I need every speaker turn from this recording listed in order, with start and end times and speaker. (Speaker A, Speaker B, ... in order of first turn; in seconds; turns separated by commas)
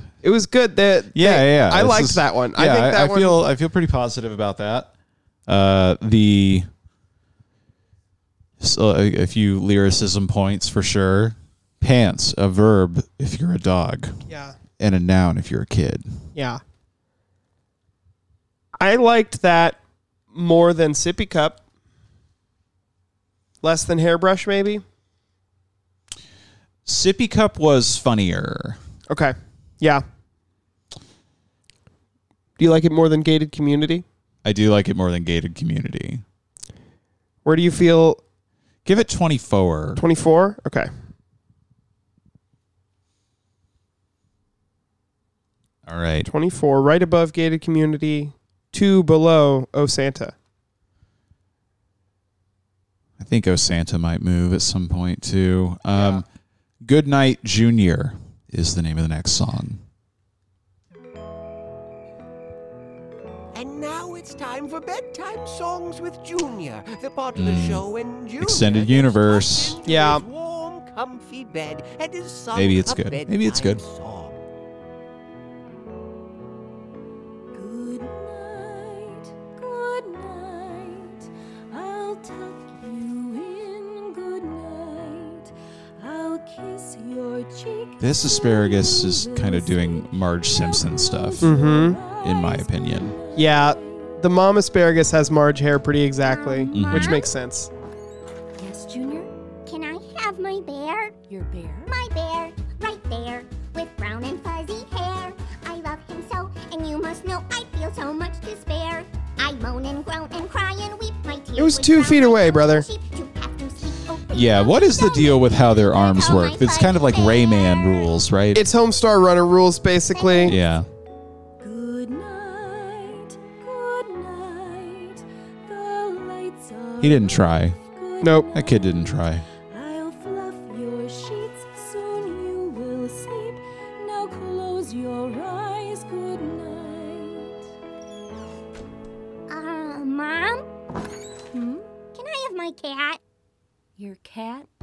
Speaker A: 0.2-3.4, Speaker B: 1.1-4.9, Speaker B: 5.5-6.7, Speaker B: 8.6-14.2, Speaker A: 14.3-14.6, Speaker B: 14.8-16.2, Speaker A: 16.4-16.6, Speaker A: 18.8-19.8, Speaker A: 20.3-21.6, Speaker A: 23.6-24.8, Speaker B: 26.9-28.8, Speaker A: 29.1-30.0, Speaker A: 32.6-34.0, Speaker B: 34.4-36.2, Speaker A: 37.5-38.2, Speaker B: 38.9-40.0, Speaker A: 40.0-40.9, Speaker B: 45.9-46.3, Speaker A: 46.3-50.3, Speaker B: 53.2-56.3, Speaker A: 56.0-56.2, Speaker B: 56.8-59.8, Speaker C: 63.5-74.4, Speaker B: 67.4-67.8, Speaker B: 68.4-69.8, Speaker A: 69.8-70.2, Speaker B: 72.5-73.8, Speaker D: 77.5-94.2, Speaker B: 88.0-91.5, Speaker A: 91.4-92.0, Speaker B: 92.2-93.2, Speaker A: 93.4-97.7, Speaker E: 96.6-97.3, Speaker D: 96.7-97.2, Speaker B: 96.7-97.2, Speaker D: 98.6-99.3, Speaker E: 99.7-101.2, Speaker D: 101.3-101.9, Speaker E: 101.9-118.2, Speaker A: 111.6-112.9, Speaker B: 114.3-118.7, Speaker A: 118.5-120.6, Speaker E: 120.1-120.6, Speaker B: 120.4-120.9, Speaker D: 121.6-129.1, Speaker B: 127.0-127.8, Speaker A: 128.2-128.5, Speaker B: 128.5-129.4, Speaker D: 129.7-137.6, Speaker E: 139.5-140.7, Speaker D: 141.5-141.8, Speaker E: 142.1-143.2, Speaker D: 144.0-144.7